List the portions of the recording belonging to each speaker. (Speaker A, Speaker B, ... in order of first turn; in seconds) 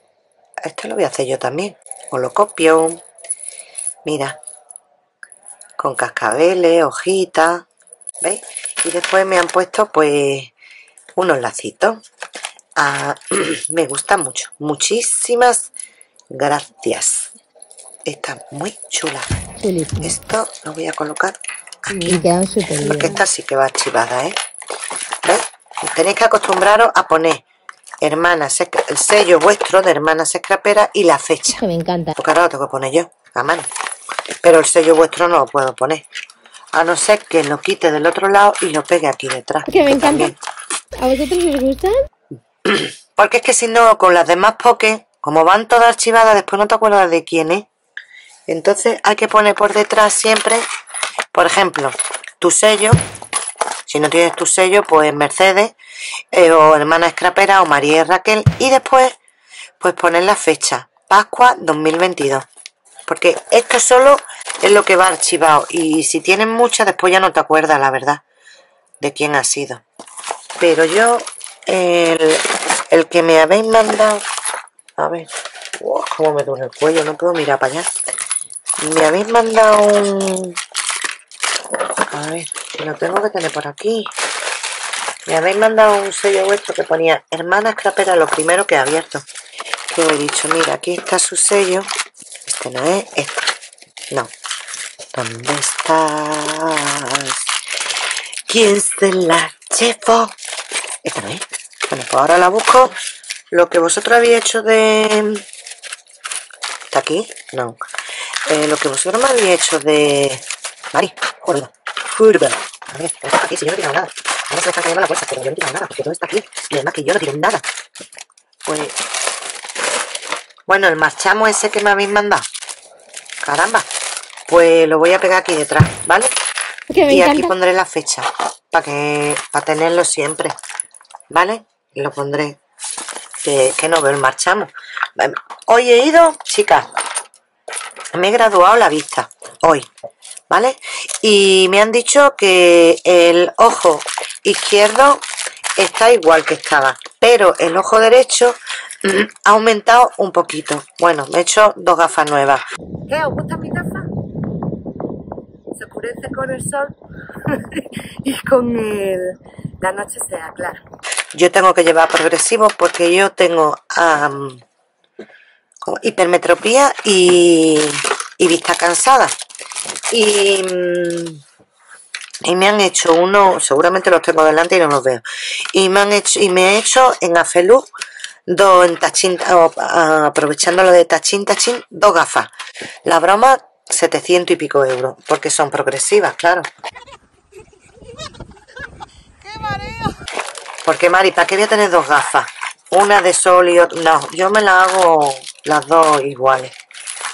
Speaker A: 0.6-3.0, 4.0-4.4, 5.8-7.7, 8.2-10.5, 11.2-12.0, 12.8-15.7, 16.3-17.3, 18.1-19.3, 20.0-22.3, 22.8-24.4, 25.2-27.4, 28.0-31.6, 32.2-33.7, 34.4-36.0, 36.7-40.4, 42.6-47.7, 48.5-50.6, 51.3-53.0, 53.9-55.8, 56.3-59.1, 59.8-62.5, 63.1-68.2, 69.0-69.8, 70.6-74.2, 75.0-77.9, 78.8-80.6, 82.1-84.1, 85.3-89.2, 89.9-91.9, 92.5-93.5, 95.1-97.4, 98.5-100.3, 101.0-103.0, 103.5-105.4, 106.9-107.8, 108.5-117.6, 118.7-119.0, 120.7-122.5, 123.4-123.9, 124.5-126.3, 127.0-130.6, 131.3-132.6, 133.4-136.9, 138.1-139.9, 140.5-145.2, 145.8-154.1, 155.7-156.9, 157.5-160.8, 161.3-164.6, 165.8-169.3, 170.1-171.4, 172.4-177.8, 178.5-182.5, 183.1-186.7, 190.8-196.8
Speaker B: 19.6-20.1, 21.9-23.2, 31.5-32.1, 39.7-40.4, 41.0-42.0, 126.9-127.5